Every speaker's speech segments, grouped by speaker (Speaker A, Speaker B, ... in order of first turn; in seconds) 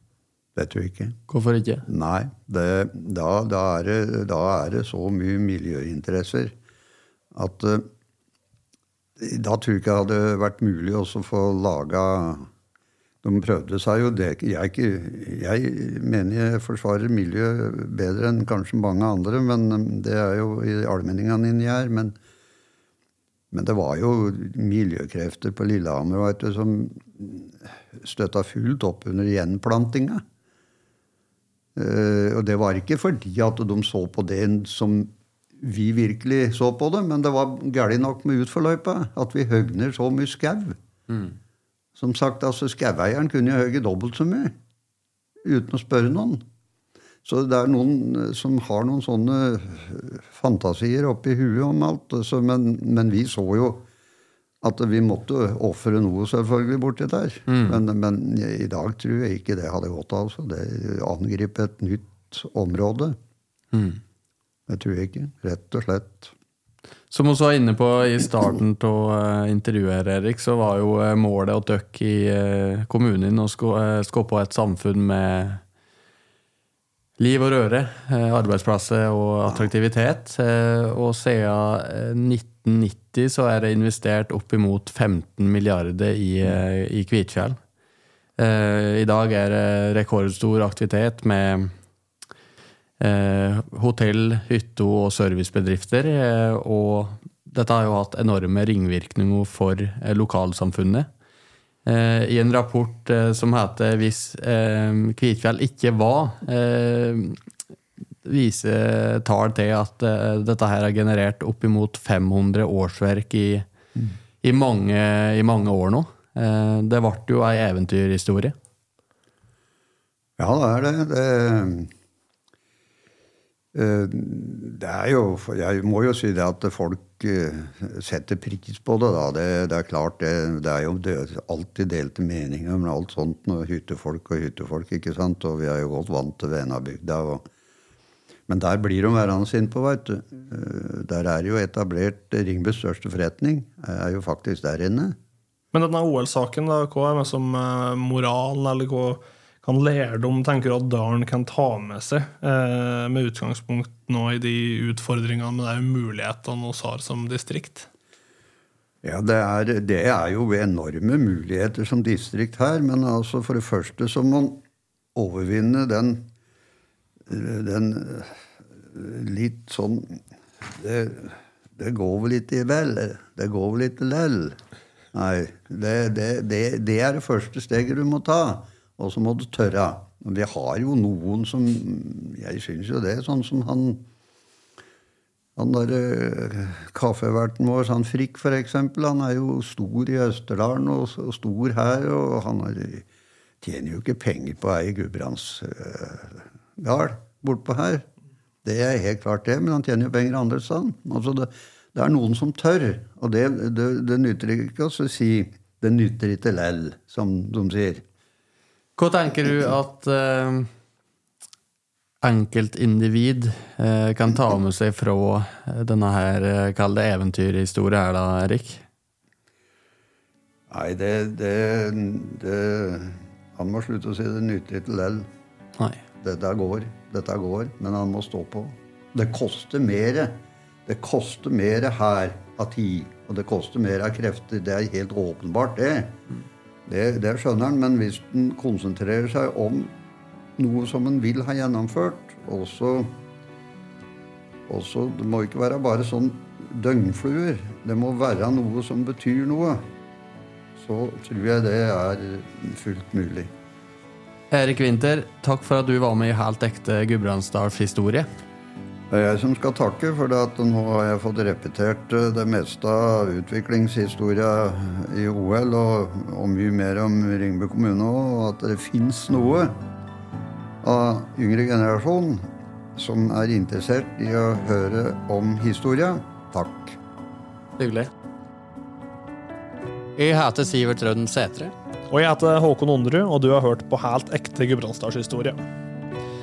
Speaker A: 0.5-1.2, 1.9-6.5, 7.3-7.9, 9.2-12.5, 13.2-22.1, 23.5-30.2, 31.7-40.8, 42.0-44.5, 45.4-46.4, 47.2-53.9, 54.6-63.1, 64.7-66.3, 120.4-121.9, 123.7-137.5, 138.5-145.2, 159.0-164.6, 165.1-166.3, 167.3-174.6, 175.1-184.0, 185.6-193.1, 193.6-198.0, 198.6-208.0, 220.7-225.3, 226.2-236.2, 236.8-239.9, 240.6-243.1, 244.7-249.8, 250.8-253.5, 259.1-269.7, 270.8-277.0
Speaker B: 1.3-1.8, 57.5-57.8, 63.7-64.0, 67.1-75.6, 77.2-87.6, 88.4-91.7, 93.0-101.1, 101.8-107.4, 108.2-113.7, 114.4-118.5, 209.0-210.7, 212.2-218.8, 254.5-258.3, 277.8-278.1, 280.1-281.7
Speaker C: 145.7-157.9, 282.1-285.6